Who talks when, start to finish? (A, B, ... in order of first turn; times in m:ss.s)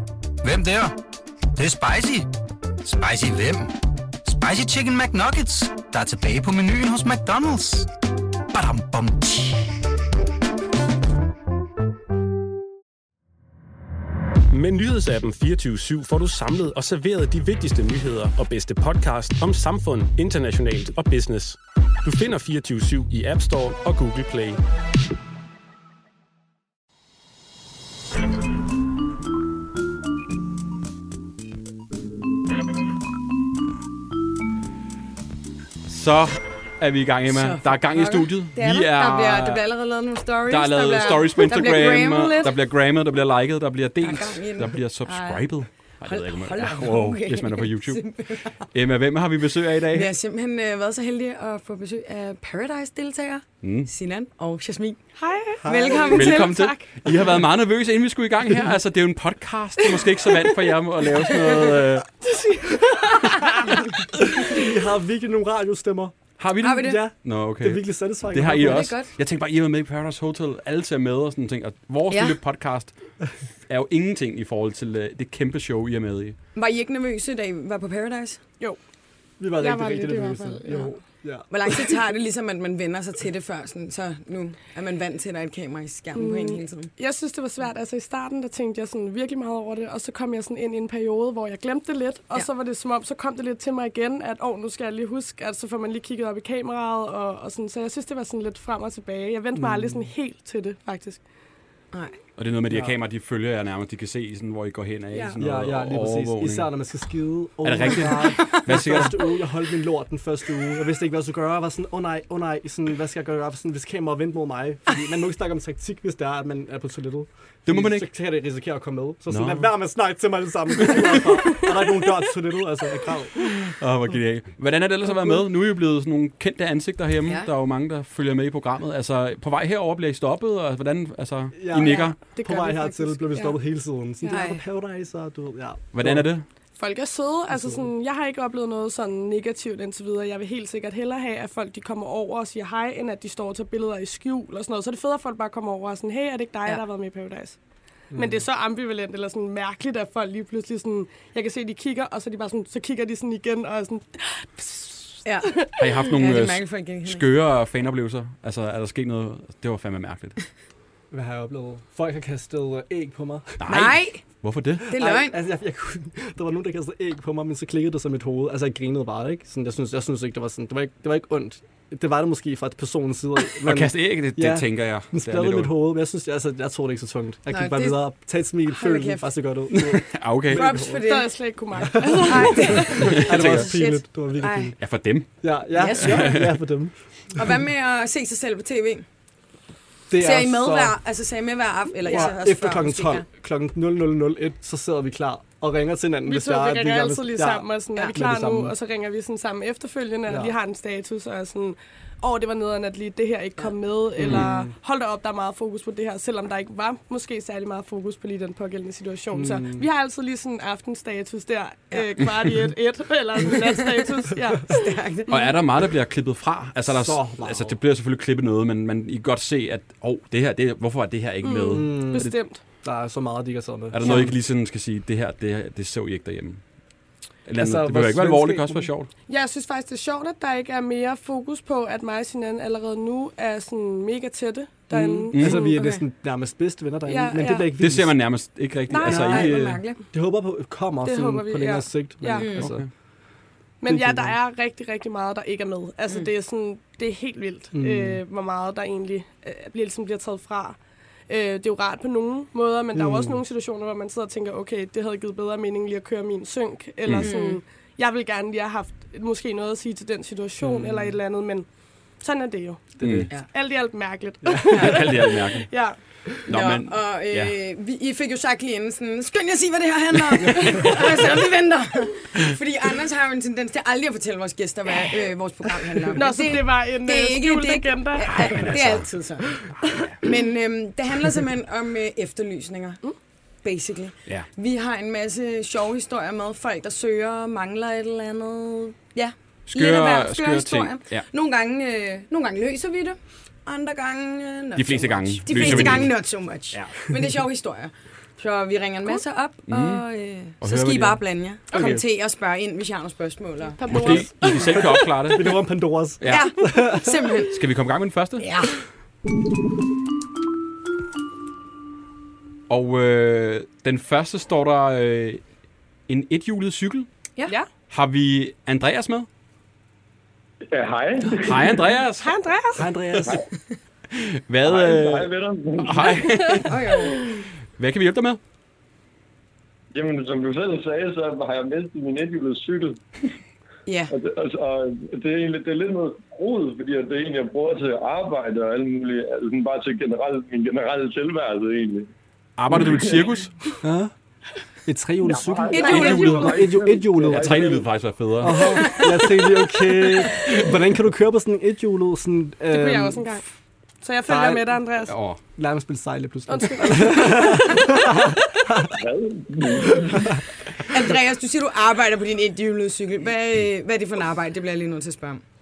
0:00.4-0:00.9 A
0:01.6-0:02.3 A
0:02.8-0:03.7 A
0:04.2-0:07.9 A
0:08.5-0:09.6 A
0:14.5-0:24.6 B
0:35.8-0:39.6 C
0:37.3-0:42.5 D
0:40.5-0:48.0 C
0:44.0-0:45.4 D
0:46.0-0:48.6 D
0:48.7-0:50.1 C
0:49.9-0:55.0 D
0:53.6-0:53.9 C
0:55.2-0:56.6 E
0:55.6-0:56.4 F
0:55.6-0:56.8 D
0:56.1-1:02.1 C
1:02.2-1:03.8 E
1:04.2-1:08.9 F
1:06.4-1:12.9 C
1:06.6-1:07.0 D
1:08.5-1:09.1 D
1:12.1-1:12.4 D
1:13.7-1:16.4 C
1:16.6-1:18.4 D
1:19.4-1:21.5 F
1:19.6-1:21.0 E
1:19.6-1:21.0 D
1:21.5-1:26.9 D
1:26.1-1:41.2 E
1:39.6-1:40.1 F
1:42.4-1:46.7 C
1:45.4-2:03.6 F
1:47.6-1:49.2 C
1:48.1-1:49.1 D
1:57.7-1:58.1 C
1:59.3-1:59.7 C
2:00.9-2:01.2 C
2:03.8-2:12.2 C
2:05.1-2:05.4 F
2:11.6-2:16.3 F
2:11.8-2:13.6 E
2:14.2-2:14.6 E
2:14.3-2:14.6 D
2:15.9-2:16.4 C
2:16.8-2:27.6 E
2:17.5-2:17.9 F
2:28.1-2:28.4 F
2:28.1-2:35.8 E
2:35.2-2:37.2 D
2:35.8-2:40.4 C
2:41.1-2:43.6 F
2:43.6-2:44.9 C
2:43.7-2:44.2 D
2:44.9-2:45.4 D
2:44.9-3:01.0 F
2:53.6-2:55.7 C
2:57.5-2:58.0 D
2:58.7-2:59.3 D
2:59.8-3:00.7 C
3:00.5-3:01.3 D
3:01.0-3:03.2 E
3:01.8-3:04.8 F
3:02.2-3:04.7 D
3:03.3-3:04.0 C
3:04.8-3:05.3 C
3:05.4-3:07.4 F
3:05.8-3:06.4 D
3:06.0-3:06.5 C
3:07.3-3:09.0 D
3:10.1-3:11.0 F
3:10.2-3:13.2 D
3:12.0-3:18.8 F
3:16.2-3:35.0 E
3:20.3-3:20.5 F
3:24.2-3:24.7 F
3:29.3-3:29.9 F
3:34.7-3:35.5 D
3:35.3-3:42.3 C
3:36.9-3:37.8 F
3:41.4-3:42.6 E
3:41.7-3:42.3 F
3:42.8-3:44.3 F
3:43.9-3:46.6 C
3:47.5-3:49.1 C
3:47.6-3:48.9 F
3:49.3-3:55.6 E
3:54.9-3:58.4 F
3:55.3-3:55.6 C
3:55.6-3:56.0 D
3:57.1-3:57.7 E
3:57.8-3:59.6 C
3:58.9-3:59.5 E
3:59.0-4:00.0 D
3:59.0-4:02.9 F
4:01.0-4:02.6 E
4:02.3-4:02.7 D
4:02.6-4:02.9 C
4:03.8-4:21.7 E
4:03.9-4:04.4 F
4:07.7-4:08.2 F
4:12.9-4:13.4 F
4:17.2-4:17.6 D
4:20.6-4:21.2 F
4:22.2-4:26.0 E
4:23.0-4:23.3 F
4:23.0-4:23.3 C
4:24.4-4:24.9 F
4:24.7-4:25.7 C
4:26.5-4:39.5 D
4:26.5-4:27.5 C
4:36.1-4:38.5 E
4:38.3-4:39.1 C
4:39.8-4:40.2 C
4:40.2-4:43.0 D
4:43.6-5:04.0 D
4:49.7-4:51.2 C
4:54.8-4:56.1 C
4:55.5-4:56.0 F
4:59.7-5:00.0 C
5:00.6-5:01.2 C
5:01.7-5:02.0 E
5:01.7-5:02.0 F
5:03.8-5:05.4 E
5:03.9-5:05.5 C
5:04.4-5:07.2 F
5:06.2-5:06.5 C
5:06.3-5:07.6 D
5:07.5-5:08.4 C
5:08.4-5:08.7 D
5:12.7-5:15.4 C
5:16.1-5:17.1 C
5:17.9-5:19.3 C
5:20.7-5:21.8 G
5:21.4-5:22.4 C
5:22.2-5:22.9 E
5:22.8-5:23.4 F
5:24.1-5:26.8 C
5:24.6-5:26.2 G
5:26.7-5:27.3 D
5:27.8-5:28.4 C
5:29.9-5:33.0 G
5:33.9-5:34.1 D
5:34.1-5:42.1 G
5:42.6-5:43.5 C
5:42.7-5:43.3 G
5:43.8-5:44.1 F
5:44.9-5:47.7 F
5:45.2-5:47.9 G
5:45.8-5:46.5 E
5:45.8-5:46.6 C
5:47.3-5:48.8 C
5:48.4-5:53.4 F
5:52.7-5:53.4 E
5:54.0-5:55.1 E
5:54.2-5:54.8 F
5:55.1-5:55.4 C
5:55.6-5:58.9 F
5:56.5-5:58.0 E
5:58.9-6:00.3 G
6:00.9-6:05.4 D